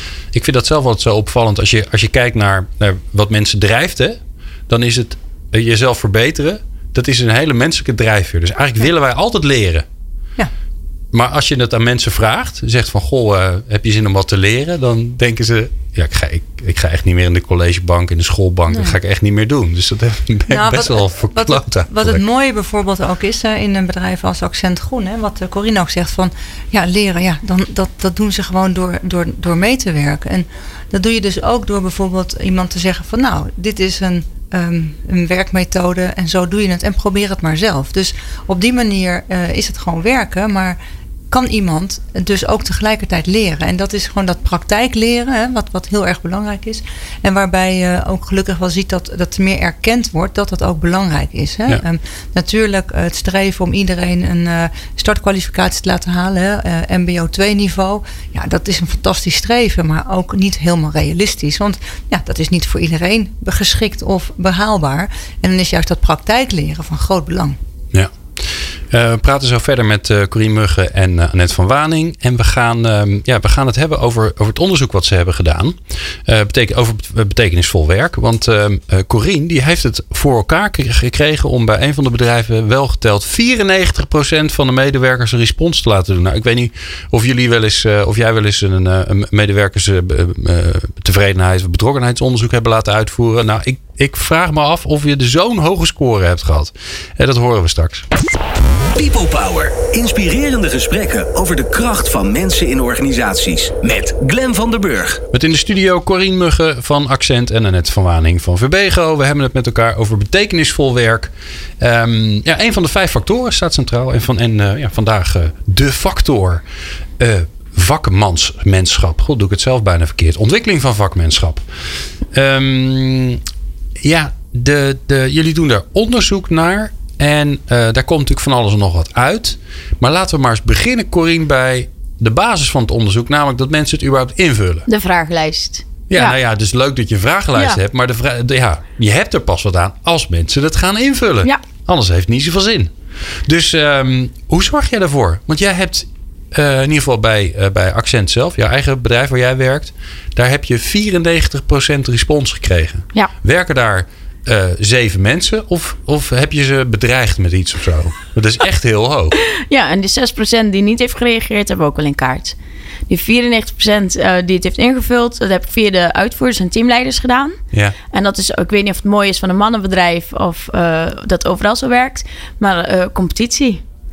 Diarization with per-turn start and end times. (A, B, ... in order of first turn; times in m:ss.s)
0:00.3-0:09.8 A
0:11.1-0:22.2 A
0:18.7-0:19.0 B
0:20.5-0:40.8 B
0:41.3-1:07.6 B
1:07.9-1:38.0 A
1:38.9-1:45.2 C
1:45.3-1:56.6 A
1:57.2-2:03.4 A
2:04.0-2:14.9 A
2:14.9-2:16.4 D
2:16.1-2:39.4 A
2:39.5-2:42.6 D
2:43.1-2:47.6 D
2:48.1-2:53.8 D